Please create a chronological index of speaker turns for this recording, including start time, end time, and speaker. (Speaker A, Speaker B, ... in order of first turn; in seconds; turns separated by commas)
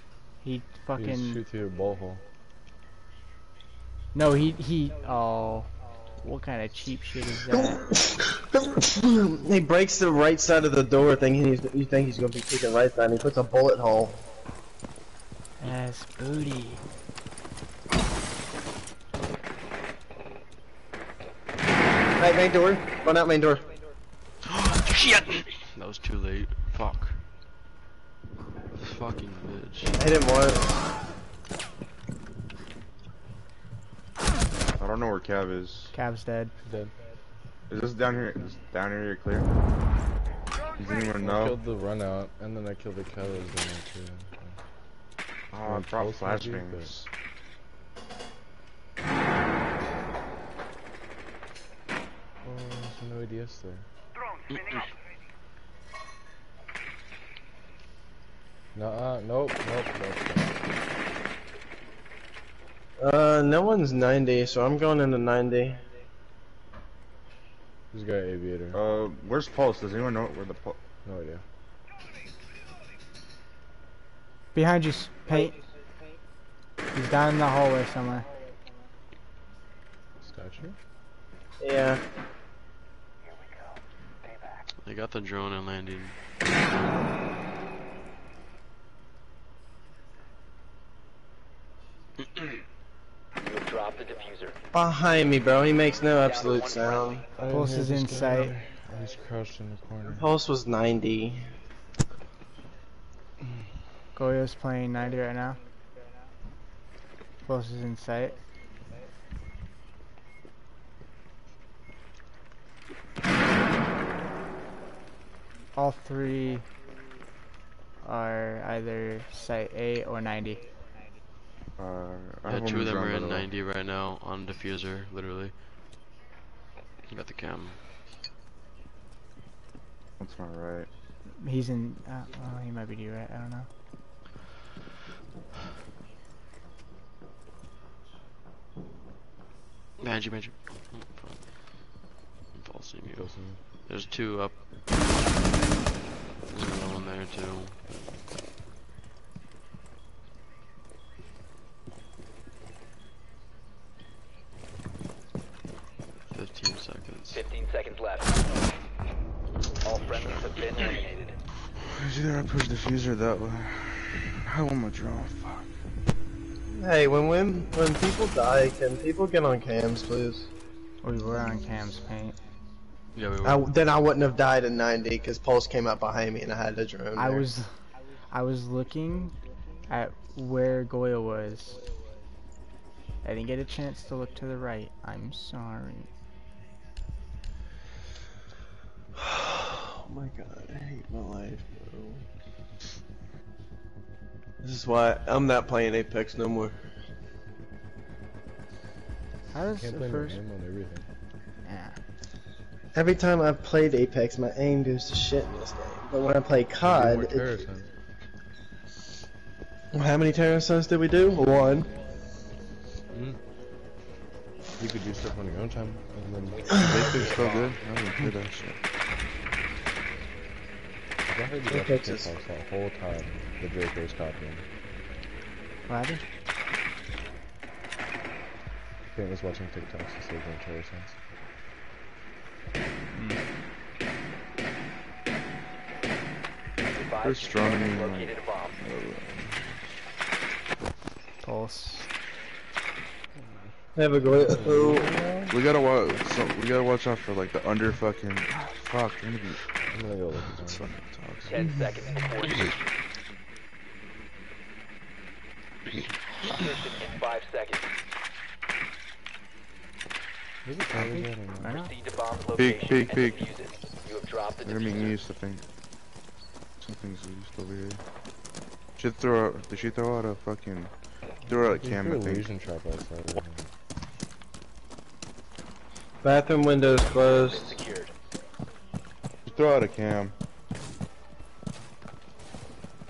Speaker A: 0.4-1.4, Speaker B: 1.0-2.2, Speaker A: 4.1-5.7, Speaker A: 6.2-7.8, Speaker C: 7.5-14.2, Speaker A: 15.6-16.8, Speaker C: 22.2-23.6, Speaker D: 24.4-27.2, Speaker D: 28.8-30.0, Speaker C: 30.0-30.8, Speaker E: 34.8-35.9, Speaker A: 35.9-36.5, Speaker B: 36.6-36.9, Speaker E: 37.7-39.5, Speaker E: 40.8-41.6, Speaker B: 41.2-44.6, Speaker E: 45.5-47.1, Speaker B: 45.6-46.9, Speaker B: 52.4-53.9, Speaker D: 54.5-54.9, Speaker B: 58.7-60.7, Speaker C: 63.0-65.8, Speaker B: 67.9-68.8, Speaker E: 68.7-70.8, Speaker B: 71.0-71.4, Speaker A: 74.5-75.6, Speaker A: 76.9-78.3, Speaker B: 80.2-80.8, Speaker C: 81.6-82.0, Speaker D: 84.8-86.2, Speaker F: 93.4-94.5, Speaker C: 94.7-97.2, Speaker F: 96.2-97.2, Speaker B: 97.4-100.3, Speaker A: 97.5-98.5, Speaker C: 100.1-101.5, Speaker A: 104.2-105.6, Speaker A: 107.5-108.3, Speaker A: 115.8-116.7, Speaker A: 118.0-120.6, Speaker E: 121.8-123.5, Speaker D: 122.5-125.5, Speaker D: 127.1-127.8, Speaker E: 130.2-130.9, Speaker A: 131.3-133.7, Speaker D: 140.0-141.7, Speaker D: 142.6-144.6, Speaker B: 143.1-143.6, Speaker D: 146.5-147.8, Speaker D: 156.3-157.4, Speaker F: 157.3-158.3, Speaker D: 159.6-160.6, Speaker F: 159.8-161.4, Speaker E: 161.8-165.7, Speaker C: 166.8-170.5, Speaker A: 171.0-172.4, Speaker D: 173.2-173.7, Speaker C: 173.4-177.5, Speaker A: 177.2-177.7, Speaker A: 178.3-179.3, Speaker A: 179.9-181.8, Speaker A: 183.2-186.1, Speaker C: 189.2-192.2, Speaker C: 194.6-196.8, Speaker A: 199.5-200.4, Speaker B: 199.8-201.1, Speaker A: 201.7-202.0, Speaker C: 202.9-207.5, Speaker B: 206.8-207.9, Speaker C: 209.9-211.9, Speaker B: 213.1-213.4, Speaker B: 214.8-217.2, Speaker F: 216.7-217.8, Speaker E: 216.8-218.8, Speaker B: 221.3-224.7, Speaker C: 221.7-222.3, Speaker A: 225.9-226.2, Speaker B: 229.1-231.2, Speaker A: 233.1-233.4, Speaker F: 236.9-238.8, Speaker E: 237.2-239.8, Speaker A: 241.4-242.1, Speaker C: 244.0-245.1, Speaker B: 244.3-245.5, Speaker E: 245.5-249.8, Speaker B: 249.9-250.9, Speaker E: 250.6-251.7, Speaker F: 251.5-252.9, Speaker F: 256.4-257.9, Speaker B: 260.6-261.7, Speaker A: 260.9-261.9, Speaker F: 261.7-265.2, Speaker E: 262.6-263.4, Speaker E: 264.6-265.6, Speaker E: 266.8-268.0, Speaker E: 269.0-270.9, Speaker E: 271.5-272.5, Speaker B: 271.8-273.7, Speaker C: 276.2-277.8, Speaker F: 276.9-278.1, Speaker E: 279.5-280.3